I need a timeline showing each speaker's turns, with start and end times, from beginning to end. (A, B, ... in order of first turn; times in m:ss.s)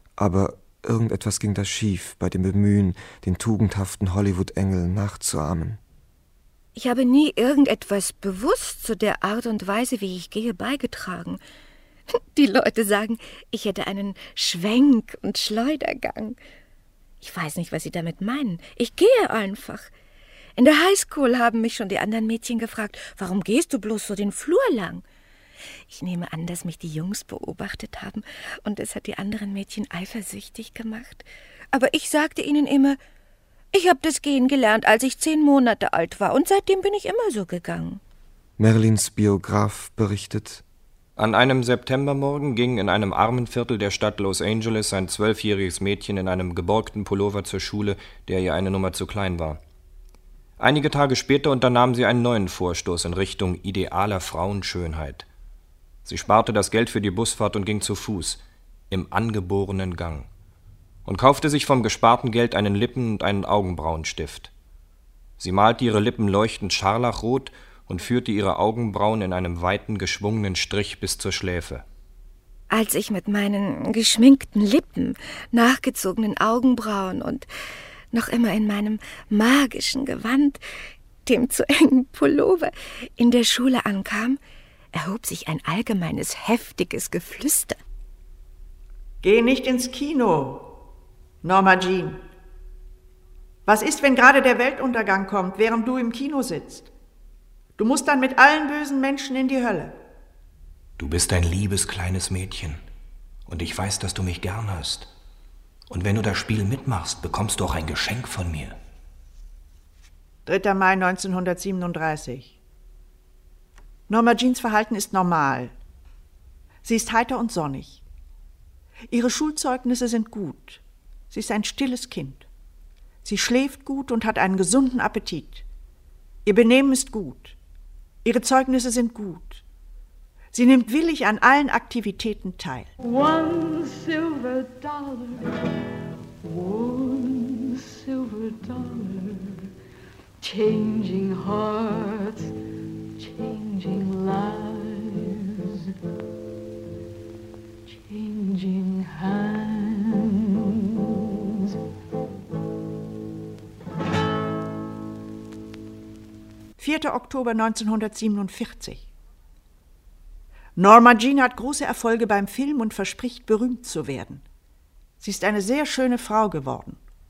0:00.2-0:05.8 A
0:06.8-0:11.4 B
0:12.1-0:16.4 B
0:17.2-0:19.9 B
0:20.6-0:25.0 B
0:25.9-0:33.0 B
0:33.7-0:38.0 B
0:38.6-0:40.6 A
0:41.2-0:49.6 C
0:50.6-0:55.3 C
0:56.0-1:00.3 C
1:01.0-1:04.5 C
1:05.4-1:11.8 C
1:12.7-1:17.5 B
1:18.1-1:20.6 B
1:21.3-1:24.4 B
1:24.9-1:27.8 B
1:29.2-1:30.7 D
1:31.4-1:32.2 D
1:33.7-1:36.9 D
1:37.8-1:40.0 D
1:41.0-1:42.8 E
1:43.5-1:45.1 E
1:45.9-1:48.8 E
1:50.5-1:52.6 D
1:54.1-1:55.7 D
1:56.8-1:58.0 D
1:59.1-2:02.5 D
2:03.2-2:05.6 D
2:06.5-2:07.6 D
2:08.2-2:09.6 D
2:10.5-2:12.9 D
2:13.0-2:15.5 F
2:16.4-2:19.6 F
2:20.4-2:22.5 F
2:23.2-2:25.8 F
2:27.9-2:30.5 F
2:36.8-2:39.1 D
2:40.8-2:44.4 D
2:45.2-2:47.0 D